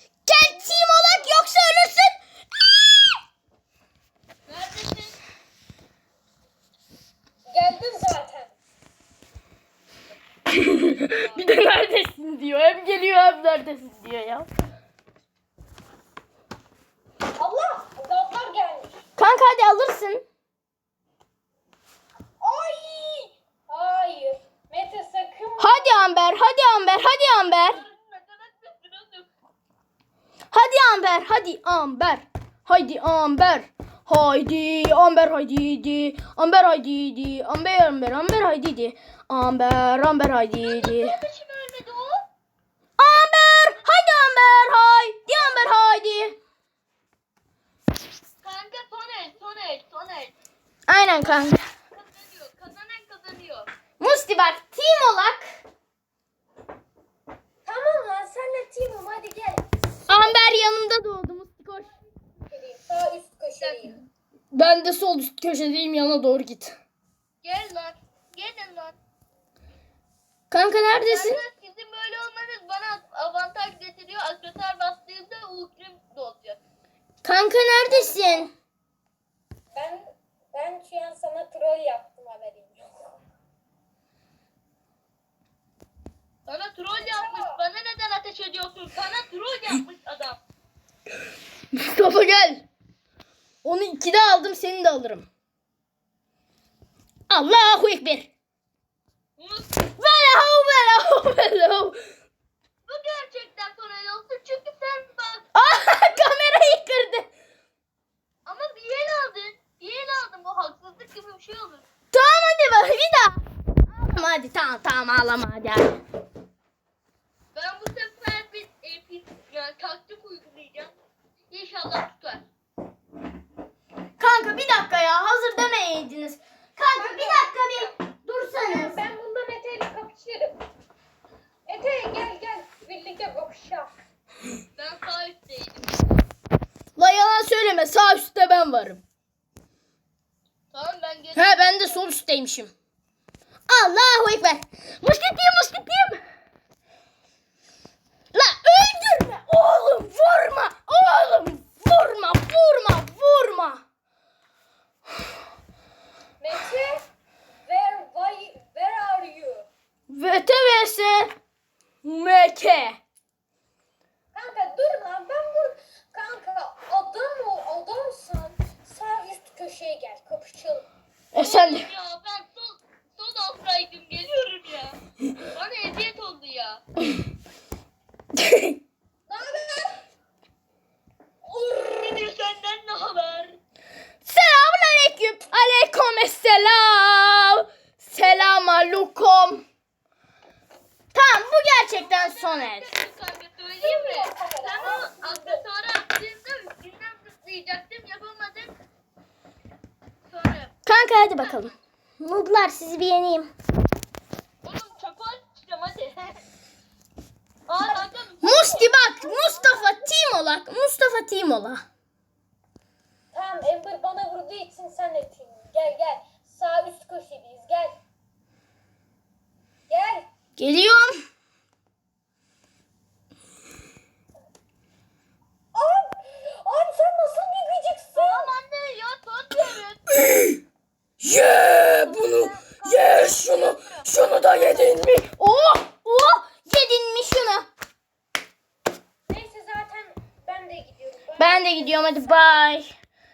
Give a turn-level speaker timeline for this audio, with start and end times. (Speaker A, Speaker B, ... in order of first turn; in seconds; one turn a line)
Speaker A: 0.3-3.2
Speaker B: 4.5-5.2
Speaker C: 7.5-8.6
Speaker B: 10.5-11.5
Speaker A: 10.5-14.5
Speaker C: 17.4-19.0
Speaker A: 19.2-20.2
Speaker C: 22.4-26.1
Speaker A: 25.6-27.8
Speaker B: 27.5-29.3
Speaker A: 30.5-41.2
Speaker B: 40.6-42.2
Speaker A: 43.0-46.4
Speaker B: 43.8-44.5
Speaker B: 45.3-45.7
Speaker B: 48.4-50.3
Speaker A: 50.9-51.6
Speaker B: 51.9-53.7
Speaker A: 54.0-55.6
Speaker C: 57.6-60.4
Speaker A: 60.1-61.9
Speaker C: 62.1-64.0
Speaker B: 63.6-64.0
Speaker A: 64.5-66.8
Speaker B: 67.4-69.0
Speaker A: 70.5-71.4
Speaker B: 71.1-76.6
Speaker A: 77.2-78.5
Speaker C: 77.9-78.5
Speaker C: 79.7-83.2
Speaker B: 86.5-90.4
Speaker C: 87.0-87.6
Speaker A: 91.7-92.7
Speaker A: 93.6-95.3
Speaker A: 97.3-98.3
Speaker B: 99.4-99.9
Speaker A: 100.0-102.0
Speaker B: 102.9-106.2
Speaker A: 105.5-107.3
Speaker B: 108.5-111.8
Speaker A: 112.1-116.0
Speaker B: 117.5-120.9
Speaker B: 121.5-122.4
Speaker A: 124.2-129.0
Speaker C: 126.9-128.0
Speaker C: 128.6-130.6
Speaker C: 131.7-133.9
Speaker B: 134.8-136.1
Speaker A: 137.0-139.0
Speaker B: 140.7-142.1
Speaker A: 141.3-142.7
Speaker A: 143.7-146.2
Speaker A: 148.3-153.8
Speaker C: 156.4-157.1
Speaker C: 157.6-159.7
Speaker A: 160.1-161.3
Speaker A: 162.0-163.0
Speaker C: 164.3-170.9
Speaker A: 171.3-171.9
Speaker B: 171.4-176.8
Speaker A: 178.3-178.8
Speaker C: 179.3-180.0
Speaker B: 181.4-183.6
Speaker A: 184.2-189.6
Speaker A: 191.1-192.9
Speaker B: 191.9-198.7
Speaker C: 193.8-195.7
Speaker B: 200.3-200.8
Speaker A: 200.9-203.5
Speaker B: 204.6-206.4
Speaker B: 207.7-208.9
Speaker C: 207.8-208.1
Speaker A: 208.4-211.8
Speaker C: 209.2-210.0
Speaker C: 213.3-218.0
Speaker C: 219.9-220.3
Speaker A: 220.6-221.2
Speaker C: 225.7-228.5
Speaker B: 228.2-230.1
Speaker A: 230.1-230.6
Speaker A: 231.2-237.7
Speaker B: 232.0-235.1
Speaker C: 239.3-242.2
Speaker A: 241.4-242.9